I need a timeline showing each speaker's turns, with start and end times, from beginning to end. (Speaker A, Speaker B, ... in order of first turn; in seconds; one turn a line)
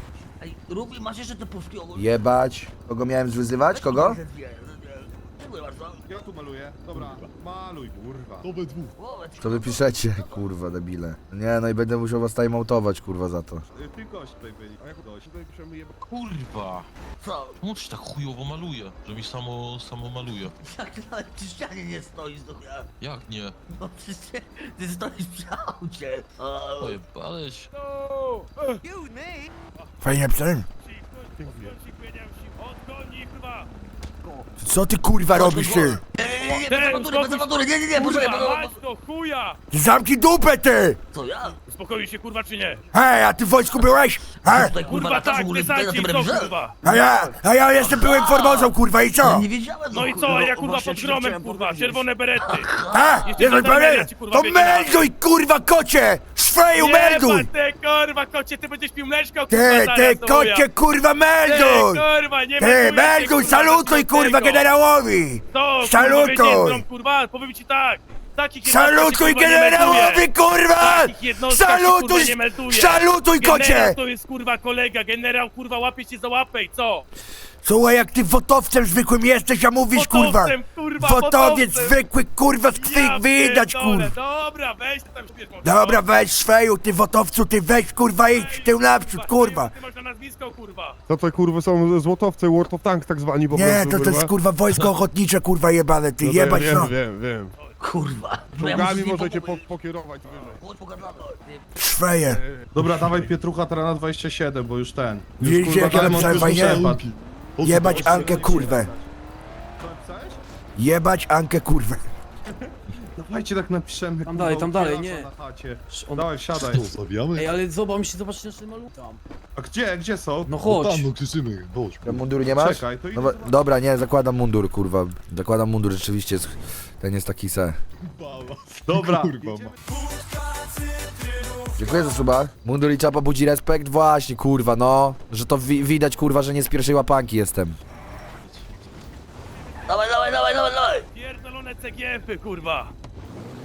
Speaker A: 0.4-2.2
Speaker B: 2.0-4.2
Speaker A: 3.7-6.0
Speaker C: 6.1-8.5
Speaker D: 8.4-8.9
Speaker A: 9.0-10.4
Speaker B: 9.4-13.7
Speaker C: 13.8-15.3
Speaker E: 14.8-16.0
Speaker F: 16.0-16.9
Speaker A: 17.2-17.6
Speaker F: 17.6-20.5
Speaker A: 20.6-22.9
Speaker F: 23.0-23.6
Speaker A: 23.8-27.0
Speaker F: 26.8-27.7
Speaker G: 30.0-30.7
Speaker H: 30.8-33.7
Speaker E: 31.4-31.8
Speaker G: 34.6-36.0
Speaker A: 35.3-38.8
Speaker H: 36.5-39.6
Speaker G: 39.7-41.0
Speaker A: 41.1-41.6
Speaker H: 41.7-42.8
Speaker G: 42.9-44.7
Speaker A: 44.5-46.5
Speaker H: 44.8-46.8
Speaker I: 46.8-47.4
Speaker G: 46.8-49.5
Speaker A: 47.8-48.7
Speaker H: 48.0-48.6
Speaker A: 49.2-53.3
Speaker H: 49.9-52.7
Speaker G: 52.9-57.5
Speaker H: 53.3-55.0
Speaker H: 56.8-60.7
Speaker G: 59.5-62.0
Speaker H: 61.5-64.7
Speaker G: 62.6-66.8
Speaker H: 65.5-70.3
Speaker G: 68.6-74.0
Speaker H: 70.8-77.0
Speaker G: 77.6-84.1
Speaker H: 80.0-82.0
Speaker H: 82.7-86.0
Speaker G: 85.6-89.7
Speaker H: 88.3-91.0
Speaker E: 91.1-94.3
Speaker G: 93.5-96.9
Speaker E: 96.2-97.5
Speaker A: 97.8-99.7
Speaker E: 98.5-100.6
Speaker A: 100.3-101.7
Speaker G: 101.8-102.4
Speaker E: 102.3-103.3
Speaker C: 102.7-107.0
Speaker G: 105.4-106.9
Speaker D: 105.4-108.6
Speaker E: 105.6-105.9
Speaker G: 107.6-108.9
Speaker C: 107.9-109.1
Speaker I: 108.0-108.8
Speaker C: 109.8-110.4
Speaker G: 110.8-112.0
Speaker C: 112.5-116.9
Speaker I: 114.2-115.3
Speaker I: 115.9-116.6
Speaker D: 116.7-117.6
Speaker I: 117.3-119.2
Speaker C: 119.6-120.5
Speaker I: 120.5-121.1
Speaker D: 120.6-122.2
Speaker B: 122.0-127.8
Speaker C: 122.5-123.6
Speaker D: 128.2-129.7
Speaker C: 128.9-129.7
Speaker B: 131.8-137.8
Speaker A: 139.9-141.1
Speaker H: 141.2-142.9